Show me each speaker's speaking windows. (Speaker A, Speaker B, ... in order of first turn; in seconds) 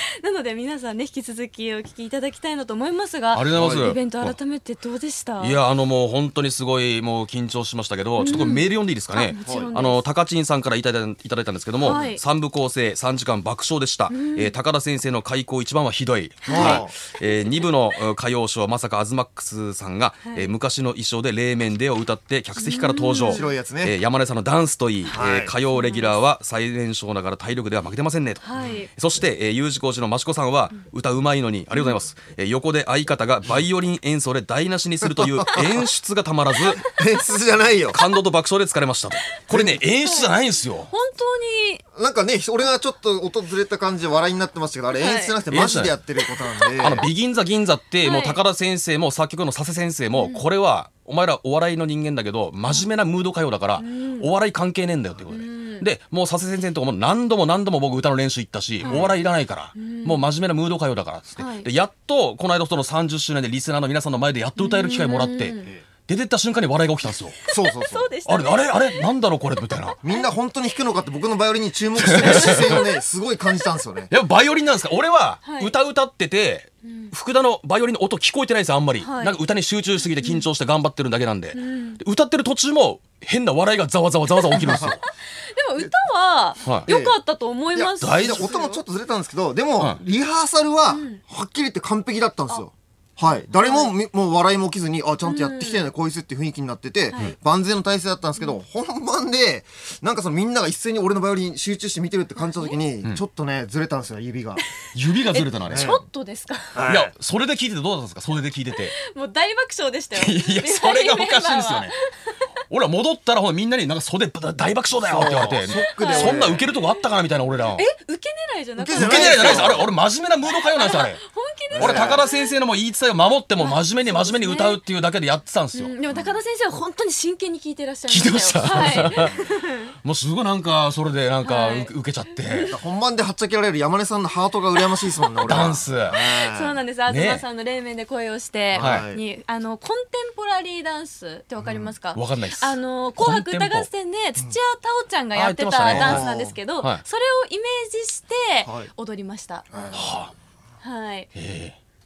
Speaker A: 0.2-5.6, 8.2-10.0, 11.8-12.2, 14.1-14.5, 16.4-17.6, 20.2-20.5, 22.6-23.5, 25.7-26.2, 28.4-28.9, 31.7-32.0, 40.0-40.4, 40.9-41.8, 45.0-45.4, 48.0-48.4, 50.1-50.4, 53.8-54.3, 55.3-55.9, 58.8-59.2, 59.8-60.3, 61.4-61.7, 64.6-65.7, 67.5-69.1, 75.4-75.8, 76.8-77.1, 79.0-79.4, 80.2-80.5, 81.5-82.0, 84.4-88.8, 90.9-91.2, 93.5-93.9, 95.2-95.8, 102.4-102.8, 105.2-106.8, 109.0-112.4, 115.7-116.4, 117.7-119.8, 120.7-122.6, 123.6-124.8, 125.7-129.9, 131.4-131.9, 132.4-132.7, 136.2-149.7, 150.8-151.3
Speaker B: 3.3-4.4, 5.4-36.9, 37.9-40.9, 45.5-46.0, 46.8-67.4, 68.3-70.0, 72.0-72.9, 74.1-85.0, 86.6-86.9, 88.0-88.5, 104.9-106.0, 106.8-109.0, 110.1-111.9, 112.7-117.8, 119.0-121.2, 121.8-125.9, 128.1-129.3, 130.0-132.7, 135.4-136.2, 137.1-137.4, 138.8-139.1, 142.1-143.9, 145.3-147.0, 149.9-150.3, 151.3-151.8
Speaker C: 3.5-4.0, 16.5-16.9, 23.2-24.0, 25.1-25.5, 35.0-35.9, 36.9-38.0, 39.5-39.8, 41.9-47.1, 58.9-59.1, 67.5-68.1, 70.0-74.1, 84.5-85.0, 86.9-87.2, 87.7-104.6, 105.6-106.0, 106.8-107.1, 115.1-116.6, 118.8-119.9, 121.7-122.2, 126.1-126.4, 129.1-129.4, 132.7-136.8, 138.7-139.2, 141.6-141.9, 145.9-146.6, 148.7-148.9, 149.7-150.2